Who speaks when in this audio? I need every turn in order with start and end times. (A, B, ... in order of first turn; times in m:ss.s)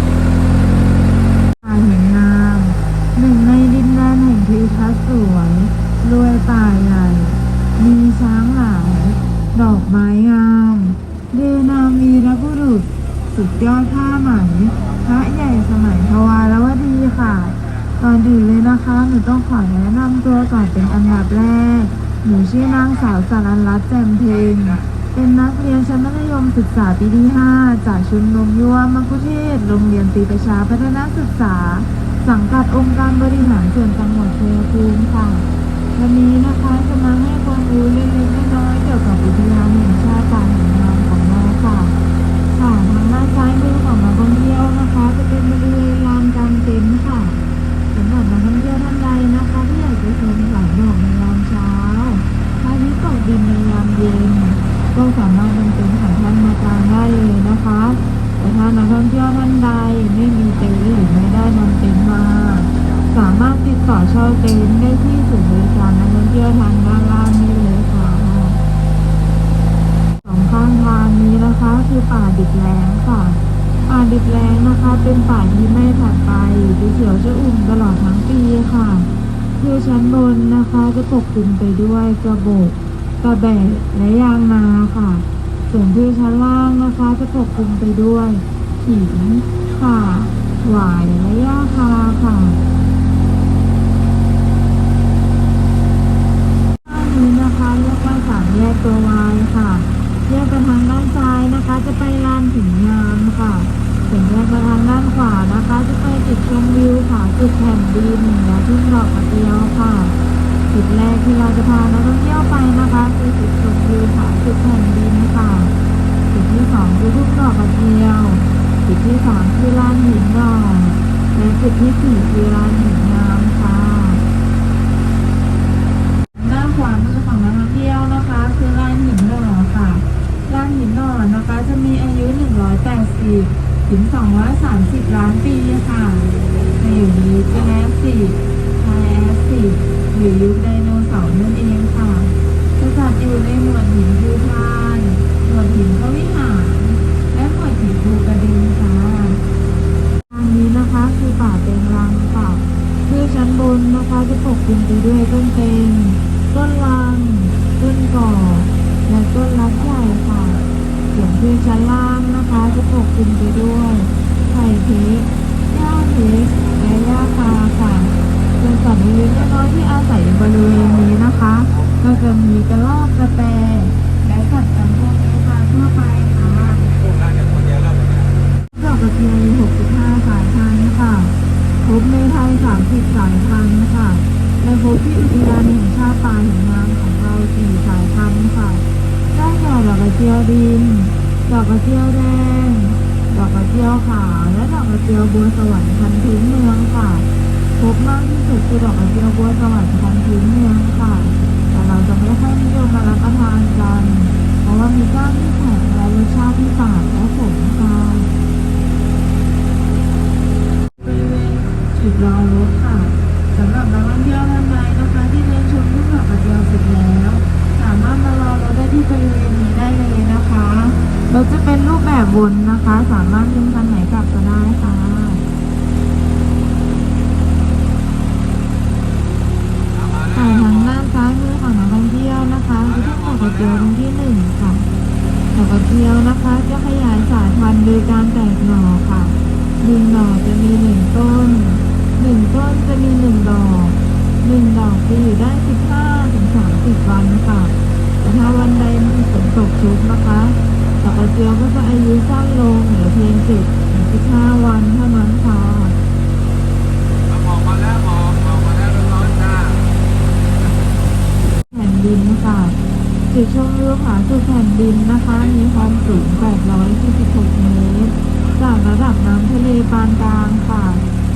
0:01.6-0:42.0 A
0:20.8-0:21.1 B
0:24.3-0:24.5 B
0:42.6-0:47.4 A
0:47.9-1:08.6 A
1:10.2-1:19.1 A
1:19.6-1:32.6 A
1:36.8-1:50.2 A
1:50.7-1:55.7 A
1:56.3-2:04.2 A
2:06.4-2:29.4 A
2:30.3-2:40.6 A
2:41.1-2:56.8 A
2:42.5-2:42.8 B
2:51.3-2:52.1 B
2:56.9-2:58.4 B
2:58.7-3:01.3 A
3:01.8-3:28.3 A
3:31.0-3:45.4 A
3:49.9-3:51.0 B
3:50.3-3:54.9 A
3:52.8-3:53.9 B
3:55.5-4:16.0 A
4:17.3-4:20.0 B
4:21.7-4:22.8 A
4:23.3-4:31.0 A
4:25.3-4:26.6 B
4:28.4-4:28.6 B